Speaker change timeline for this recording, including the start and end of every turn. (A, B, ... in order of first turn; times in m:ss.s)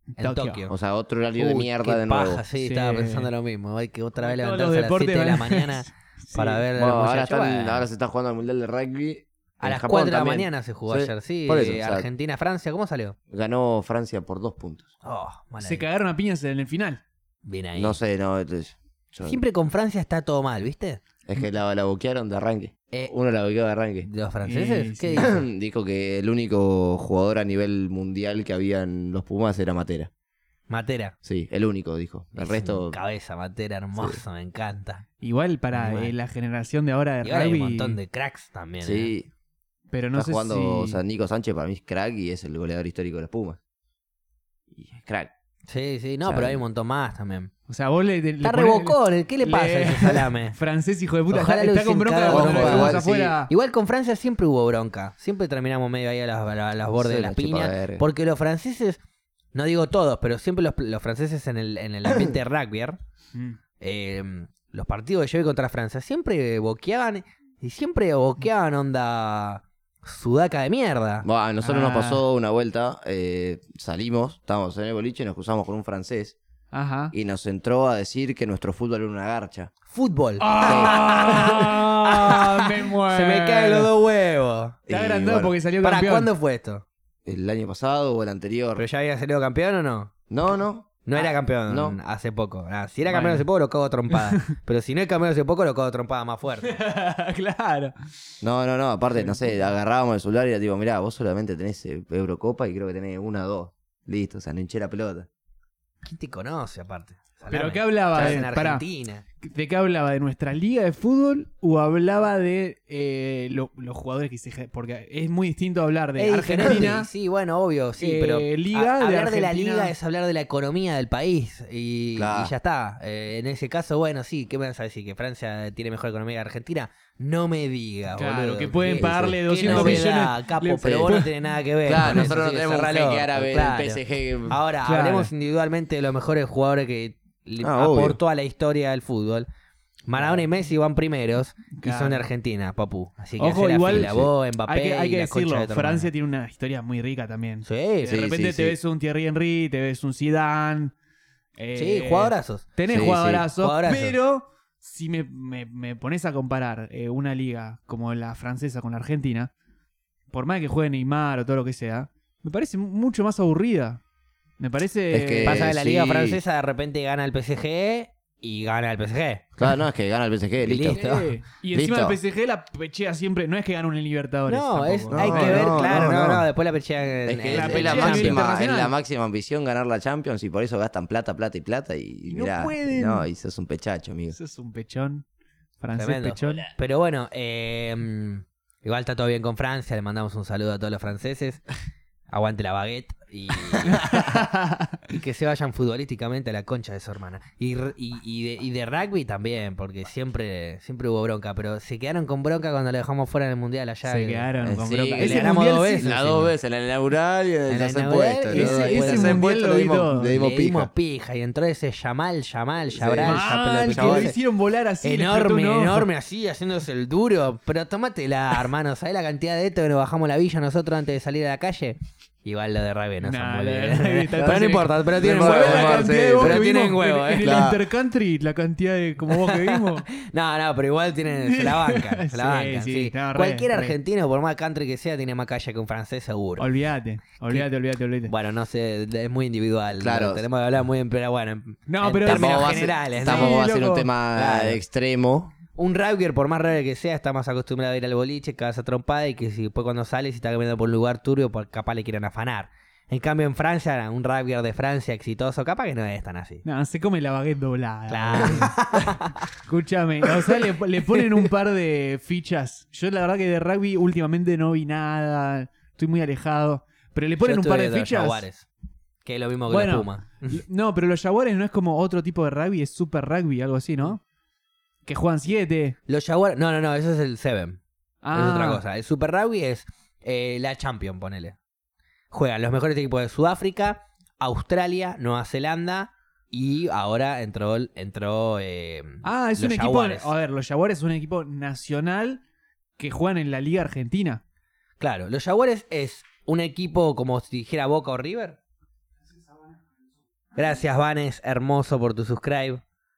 0:00.2-0:00.6 A
0:00.2-0:00.7 B
0:00.7-0:02.4 C
0:01.4-0:07.9 B
0:02.6-0:03.3 A
0:04.2-0:06.6 A
0:06.8-0:12.1 C
0:09.6-0:13.2 B
0:13.3-0:14.9 C
0:15.0-0:15.8 B
0:15.6-0:17.0 A
0:17.4-0:18.0 B
0:17.8-0:19.4 C
0:19.2-0:21.0 B
0:21.3-0:24.1 C
0:24.0-0:25.4 B
0:24.4-0:25.4 A
0:25.2-0:30.1 C
0:30.7-0:31.2 B
0:31.2-0:33.0 C
0:32.4-0:35.0 B
0:34.0-0:34.2 C
0:35.2-0:38.0 A
0:35.7-0:36.1 B
0:37.2-0:39.1 B
0:38.8-0:39.3 C
0:39.9-0:41.0 A
0:40.2-0:43.6 C
0:44.7-0:45.3 C
0:45.7-0:47.5 B
0:46.2-0:46.6 C
0:47.7-0:53.5 A
0:48.4-0:50.6 B
0:51.3-0:59.0 B
0:52.3-0:53.4 C
0:57.0-0:58.0 C
0:59.5-1:03.0 B
1:03.8-1:11.3 B
1:11.2-1:16.4 C
1:11.6-1:12.2 A
1:16.7-1:17.1 A
1:17.1-1:19.7 C
1:19.9-1:24.8 B
1:20.4-1:23.9 A
1:20.6-1:21.5 C
1:24.9-1:25.6 C
1:24.9-1:26.3 A
1:25.8-1:26.8 B
1:27.3-1:28.8 C
1:28.8-1:30.1 B
1:30.3-1:31.1 C
1:31.0-1:36.8 B
1:31.7-1:32.0 C
1:33.1-1:33.5 A
1:34.1-1:34.5 A
1:36.6-1:37.9 A
1:38.4-1:45.3 C
1:39.2-1:39.6 A
1:46.0-1:49.2 B
1:47.5-1:48.8 A
1:49.4-1:57.1 A
1:56.2-2:19.5 B
1:58.0-1:59.9 A
2:02.2-2:02.5 C
2:08.2-2:11.3 A
2:09.0-2:10.1 C
2:10.8-2:11.1 C
2:11.8-2:14.6 C
2:12.0-2:12.3 A
2:14.8-2:15.3 A
2:17.6-2:18.2 C
2:20.1-2:26.1 B
2:21.8-2:22.2 A
2:23.4-2:30.9 A
2:23.9-2:24.3 C
2:27.6-2:28.2 B
2:28.0-2:28.8 C
2:31.6-2:39.5 A
2:31.8-2:32.7 B
2:32.9-2:33.5 C
2:33.6-2:34.2 B
2:40.3-2:44.0 A
2:44.6-2:45.7 A
2:45.1-2:46.4 C
2:45.4-2:49.5 B
2:49.6-2:51.0 C
2:50.6-2:51.3 B
2:50.9-2:56.4 A
2:51.7-2:52.2 C
2:54.5-2:58.4 B
2:55.1-2:56.4 C
2:57.3-3:04.4 C
2:57.5-2:58.9 A
3:02.3-3:03.3 A
3:04.3-3:05.2 A
3:05.8-3:06.7 A
3:06.0-3:11.6 B
3:12.3-3:14.1 B
3:13.8-3:15.0 A
3:15.1-3:24.5 B
3:24.0-3:26.1 A
3:24.6-3:30.9 C
3:25.2-3:26.5 B
3:27.7-3:29.4 B
3:28.5-3:30.4 A
3:30.3-3:34.4 B
3:32.9-3:34.3 C
3:33.2-3:36.1 A
3:35.0-3:47.6 B
3:43.2-3:50.1 A
3:45.2-3:46.7 C
3:47.4-3:47.8 C
3:49.3-3:56.7 B
3:51.4-3:54.0 A
3:56.6-3:58.3 A
3:58.3-4:03.6 B
4:00.0-4:00.4 C
4:01.9-4:04.1 A
4:02.2-4:05.5 C
4:04.3-4:04.8 B
4:05.8-4:16.6 B
4:16.6-4:28.4 A
4:18.1-4:19.4 B
4:20.3-4:21.5 B
4:27.4-4:28.7 B
4:29.2-4:30.6 B
4:29.7-4:34.2 A
4:35.1-4:36.0 A
4:36.1-4:37.8 B
4:38.2-4:38.8 A
4:38.3-4:41.6 B
4:42.3-4:50.3 B
4:49.2-4:52.4 A
4:53.0-4:54.4 A
4:55.0-4:58.6 B
5:00.6-5:02.8 B